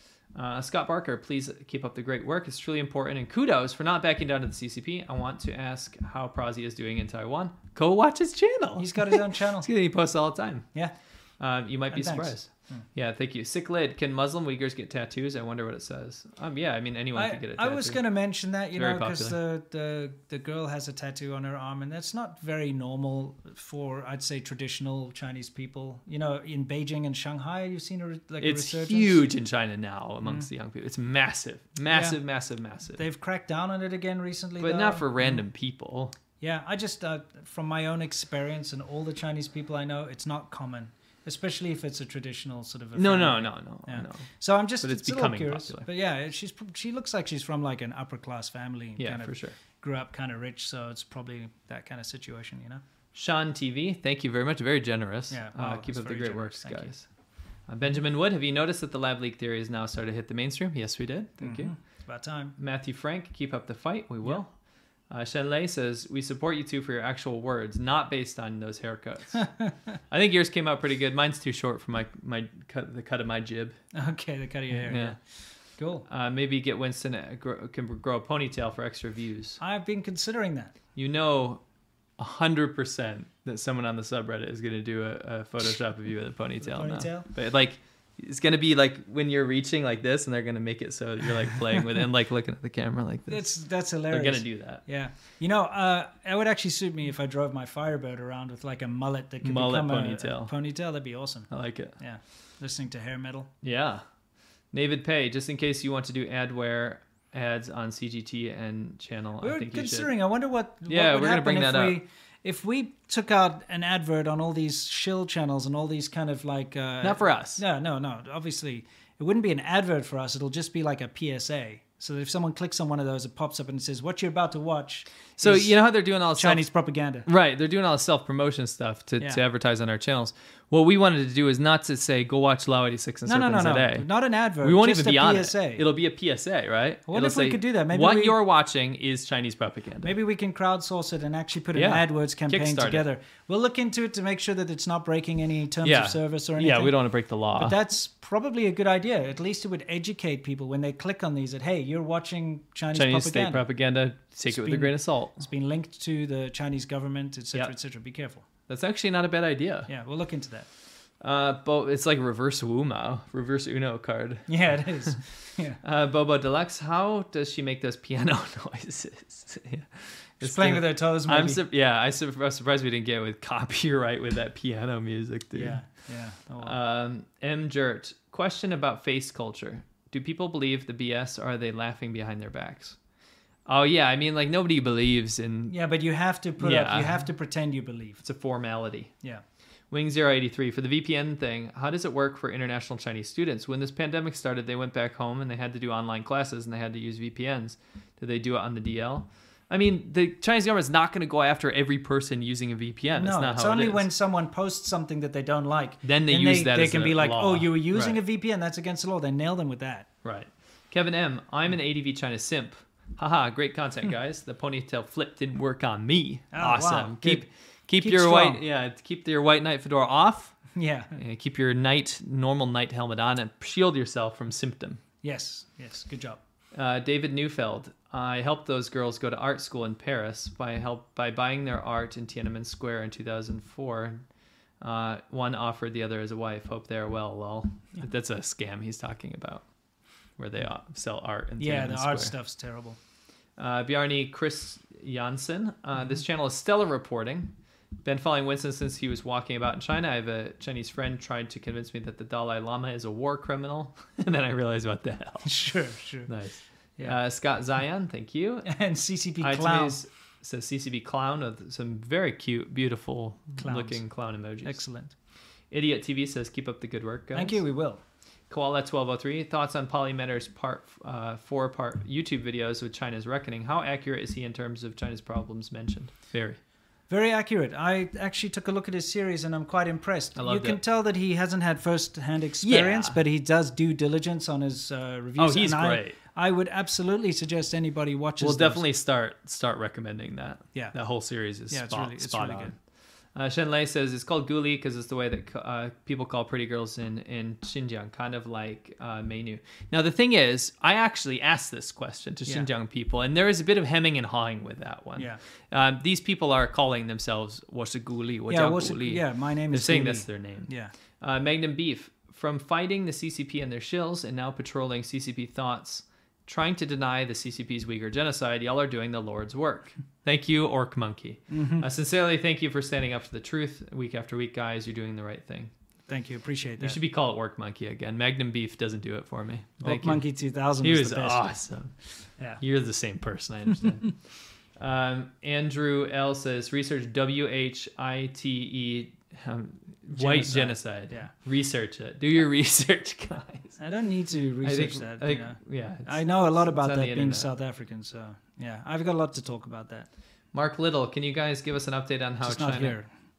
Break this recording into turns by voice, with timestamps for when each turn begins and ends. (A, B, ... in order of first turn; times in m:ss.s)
0:00.3-0:10.7 A
0:08.8-0:09.7 B
0:11.4-0:18.0 A
0:11.9-0:12.8 B
0:17.1-0:29.2 B
0:18.7-0:19.4 A
0:28.4-0:33.0 A
0:31.9-0:32.2 B
0:32.9-0:35.4 B
0:34.6-0:36.2 A
0:36.4-0:52.8 B
0:43.0-0:44.3 A
0:44.8-0:45.9 A
0:49.0-0:49.6 A
0:53.1-0:57.1 A
0:55.3-0:56.9 B
0:57.7-1:01.7 A
1:01.4-1:02.6 B
1:02.6-1:04.5 A
1:05.1-1:09.5 A
1:09.4-1:09.7 B
1:10.1-1:13.8 A
1:13.9-1:15.2 B
1:14.9-1:15.2 A
1:15.8-1:16.1 B
1:16.1-1:19.6 A
1:19.6-1:20.8 B
1:21.0-1:21.6 A
1:22.2-1:33.5 A
1:26.6-1:27.3 B
1:33.3-1:43.5 B
1:34.1-1:34.8 A
1:39.4-1:40.5 A
1:41.5-1:42.0 A
1:43.6-1:44.0 A
1:44.7-1:50.1 A
1:49.4-2:05.8 B
1:50.9-1:52.0 A
1:57.0-1:57.6 A
2:05.4-2:06.6 A
2:06.3-2:07.3 B
2:07.2-2:14.1 A
2:13.3-2:15.8 B
2:14.6-2:20.2 A
2:17.1-2:18.4 B
2:20.0-2:27.0 B
2:21.7-2:23.1 A
2:25.8-2:27.8 A
2:27.6-2:33.7 B
2:32.9-2:35.4 A
2:34.5-2:38.4 B
2:38.7-2:39.9 A
2:39.9-2:40.7 B
2:41.2-2:45.2 A
2:44.5-2:45.8 B
2:45.8-2:55.8 A
2:50.4-2:51.6 B
2:55.5-2:56.8 B
2:56.6-3:03.0 A
3:03.7-3:05.8 A
3:05.7-3:08.2 B
3:06.6-3:07.2 A
3:08.2-3:09.1 A
3:09.9-3:24.1 A
3:23.2-3:30.1 B
3:26.0-3:28.2 A
3:30.2-3:40.6 A
3:36.5-3:37.5 B
3:38.0-3:38.6 B
3:40.7-3:41.2 B
3:41.2-3:45.0 A
3:45.2-3:46.4 B
3:46.7-3:54.2 A
3:54.8-3:59.6 A
4:00.4-4:02.4 A
4:01.6-4:03.0 B
4:03.6-4:15.6 A
4:15.4-4:16.3 B
4:16.3-4:18.8 A
4:18.6-4:20.0 B
4:19.4-4:24.8 A
4:23.6-4:24.0 B
4:24.6-4:25.1 B
4:25.7-4:27.6 A
4:27.3-4:28.0 B
4:28.5-4:36.6 A
4:37.1-4:48.8 B
4:40.4-4:40.8 A
4:42.6-4:43.2 A
4:45.4-4:46.2 A
4:48.4-4:52.8 A
4:51.7-4:52.8 B
4:53.4-5:25.7 A
5:08.5-5:10.9 B
5:21.5-5:21.9 B
5:26.1-5:27.0 B
5:26.8-5:30.2 A
5:29.8-5:31.4 B
5:30.8-5:32.0 A
5:32.6-5:34.2 A
5:34.8-5:43.8 A
5:40.1-5:41.3 B
5:43.8-5:50.1 B
5:44.6-5:47.5 A
5:50.5-5:53.0 A
5:52.4-5:53.1 B